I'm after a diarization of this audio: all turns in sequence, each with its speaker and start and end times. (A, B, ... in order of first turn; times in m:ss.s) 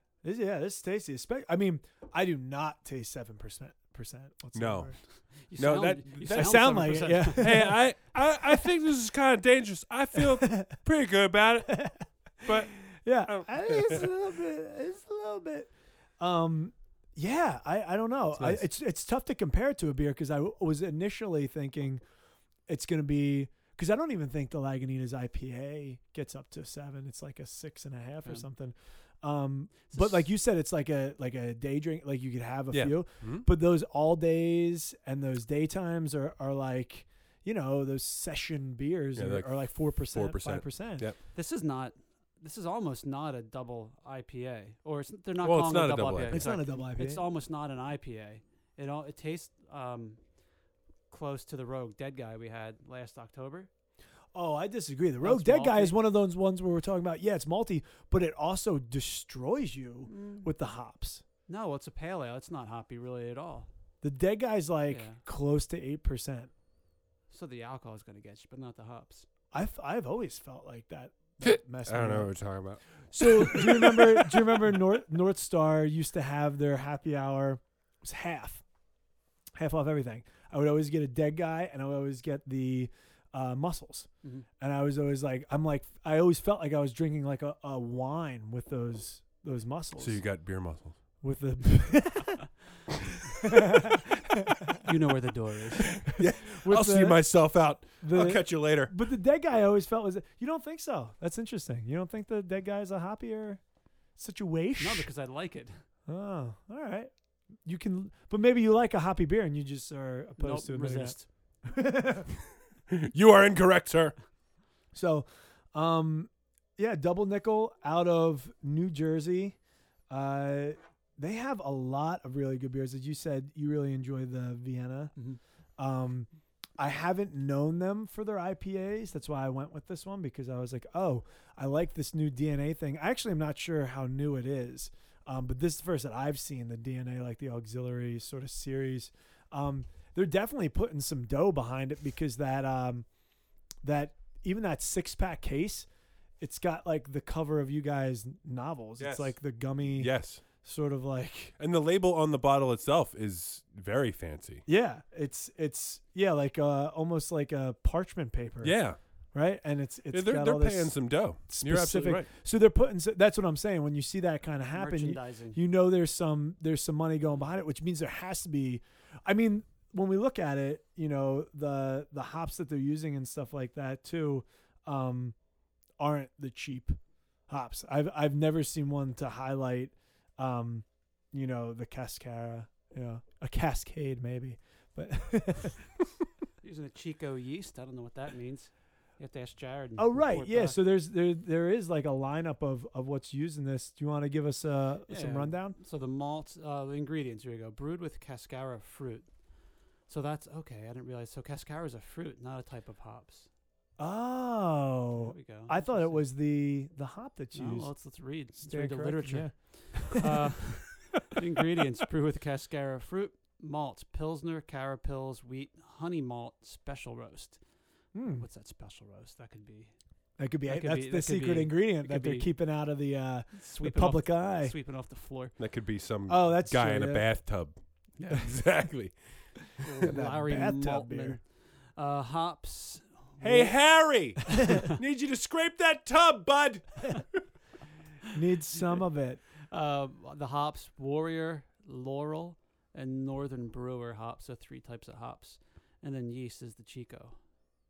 0:00.2-0:05.0 A
0:04.5-0:14.1 B
0:05.4-0:07.7 C
0:06.4-0:07.8 A
0:10.4-0:10.7 A
0:12.5-0:22.0 A
0:18.3-0:18.7 B
0:22.7-0:41.1 A
0:29.9-0:30.2 C
0:32.7-0:33.5 B
0:39.2-0:41.2 B
0:41.3-0:50.2 C
0:45.4-0:46.5 B
0:46.3-0:47.2 A
0:51.1-0:53.7 C
0:54.3-1:01.2 A
0:55.2-0:56.0 C
1:00.1-1:00.5 C
1:01.5-1:03.7 C
1:04.0-1:06.5 A
1:04.9-1:05.2 C
1:07.3-1:09.3 C
1:09.5-1:12.3 A
1:11.4-1:14.6 B
1:13.1-1:18.6 A
1:19.6-1:24.1 A
1:24.6-1:30.2 A
1:30.0-1:31.0 B
1:31.2-1:32.4 A
1:33.4-1:34.8 A
1:34.8-1:36.0 C
1:36.0-1:37.3 A
1:36.1-1:38.9 B
1:38.0-1:43.6 A
1:44.2-1:45.1 A
1:44.8-1:45.8 C
1:46.1-1:47.1 A
1:47.6-1:52.3 A
1:50.4-1:51.3 C
1:52.9-1:54.2 B
1:54.9-1:59.6 A
2:00.1-2:05.1 A
2:05.8-2:23.1 A
2:23.8-2:25.9 A
2:26.4-2:31.5 A
2:29.0-2:29.4 B
2:30.0-2:30.4 B
2:31.6-2:34.6 B
2:34.7-2:38.8 A
2:38.6-2:39.0 B
2:39.3-2:55.4 A
2:40.1-2:42.3 B
2:44.8-2:45.6 C
2:56.0-3:05.9 A
3:06.6-3:10.8 C
3:10.0-3:15.8 A
3:15.1-3:19.3 C
3:20.1-3:23.5 C
3:24.0-3:27.9 A
3:25.2-3:26.3 C
3:27.5-3:37.6 C
3:28.6-3:30.4 A
3:38.1-3:38.4 A
3:38.2-3:39.9 C
3:40.4-3:44.7 A
3:40.7-3:42.5 C
3:43.6-3:45.6 C
3:45.6-3:47.8 B
3:46.3-3:47.3 A
3:48.2-3:48.5 C
3:48.3-3:49.2 B
3:49.8-3:53.7 C
3:50.0-3:51.4 A
3:53.4-3:57.4 B
3:58.3-3:59.4 A
3:59.7-4:07.4 C